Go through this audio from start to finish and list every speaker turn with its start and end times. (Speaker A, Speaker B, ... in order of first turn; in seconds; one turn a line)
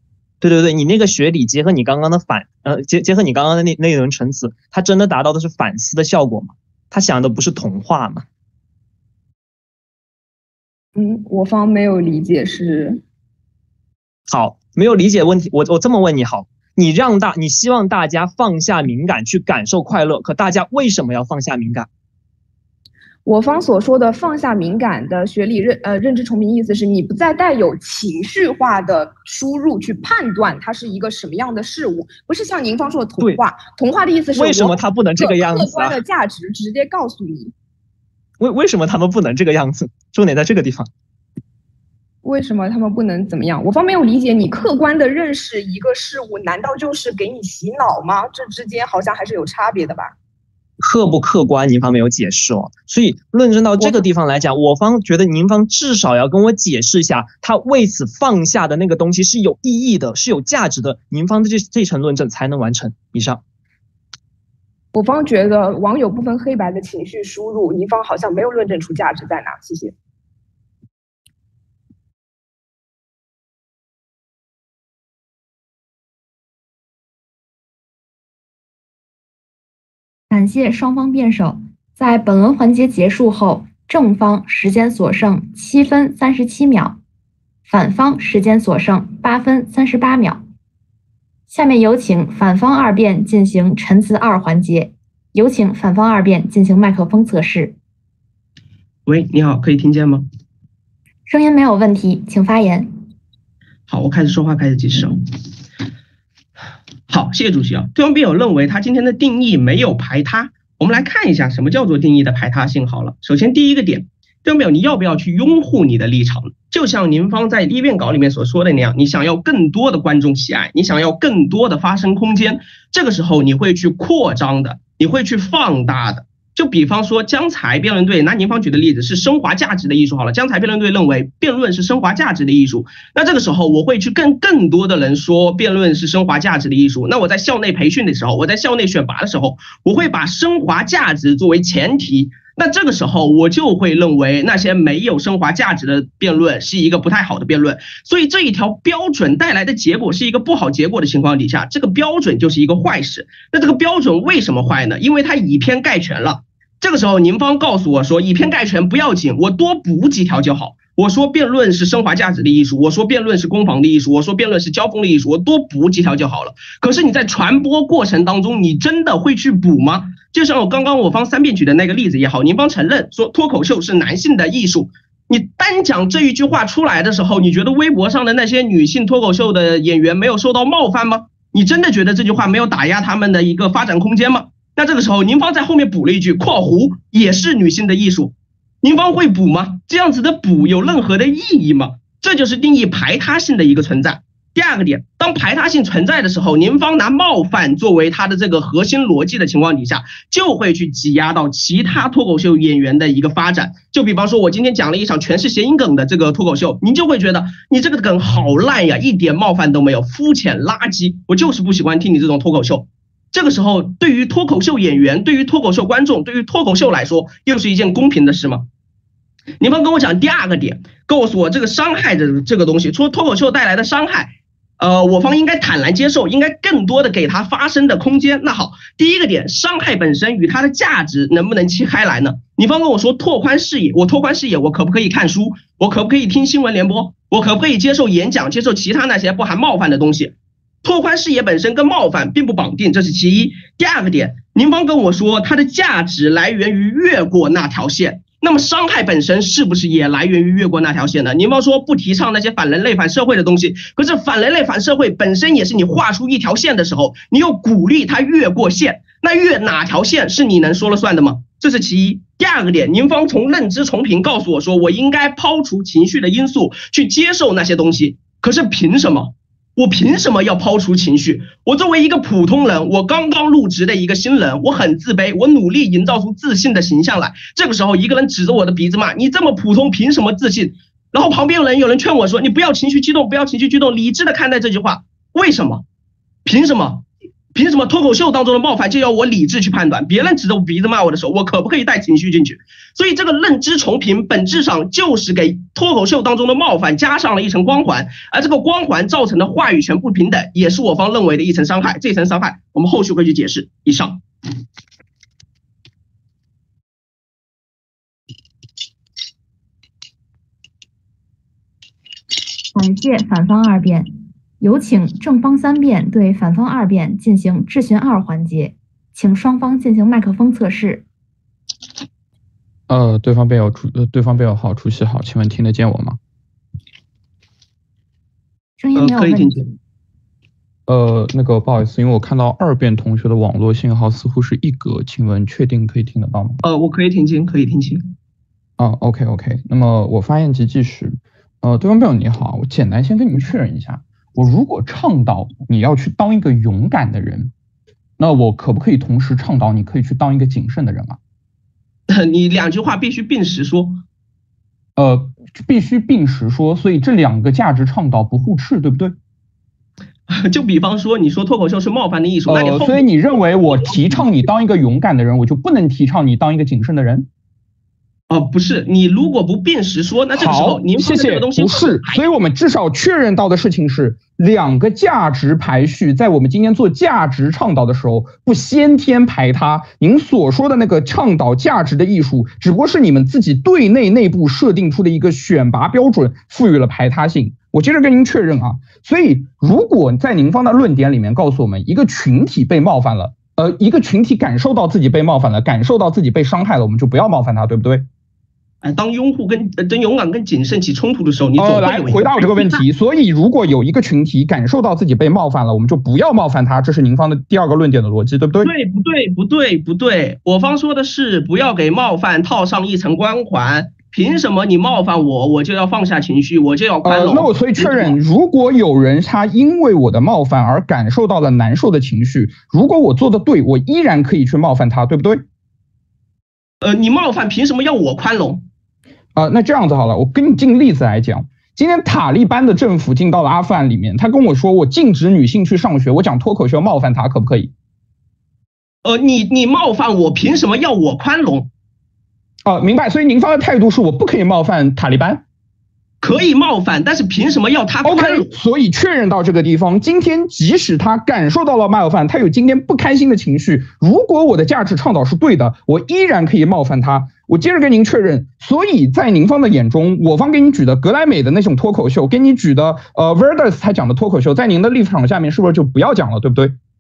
Speaker A: 0.4-8.2
Speaker B: 11.0-13.0
Speaker A: 14.3-21.9
Speaker B: 23.3-37.5
Speaker A: 34.3-36.0
Speaker A: 38.4-40.9
Speaker B: 42.2-50.1
Speaker A: 50.8-63.4
Speaker B: 53.8-54.1
Speaker B: 64.9-69.9
Speaker C: 80.3-87.0
Speaker C: 87.7-90.5
Speaker C: 91.5-97.8
Speaker D: 99.1-100.3
Speaker C: 101.3-102.9
Speaker D: 103.9-105.2
Speaker D: 107.1-218.7
Speaker D: 219.6-285.9
Speaker D: 286.4-304.2
Speaker C: 312.7-321.1
Speaker E: 322.9-326.2
Speaker C: 328.8-329.6
Speaker D: 328.9-329.7
Speaker E: 330.9-336.6
Speaker D: 336.6-338.1
Speaker E: 338.8-347.5
Speaker E: 348.2-351.2
Speaker D: 352.1-354.0
Speaker E: 355.0-359.1
Speaker D: 360.3-364.3
Speaker E: 362.5-367.3
Speaker D: 368.3-372.3
Speaker E: 370.4-398.1
Speaker D: 398.8-402.8
Speaker E: 401.6-408.7
Speaker D: 408.6-418.2
Speaker E: 417.0-425.4
Speaker D: 426.8-428.6
Speaker E: 429.4-437.7
Speaker D: 439.0-441.7
Speaker E: 442.6-445.4
Speaker D: 446.2-448.5
Speaker E: 448.1-466.8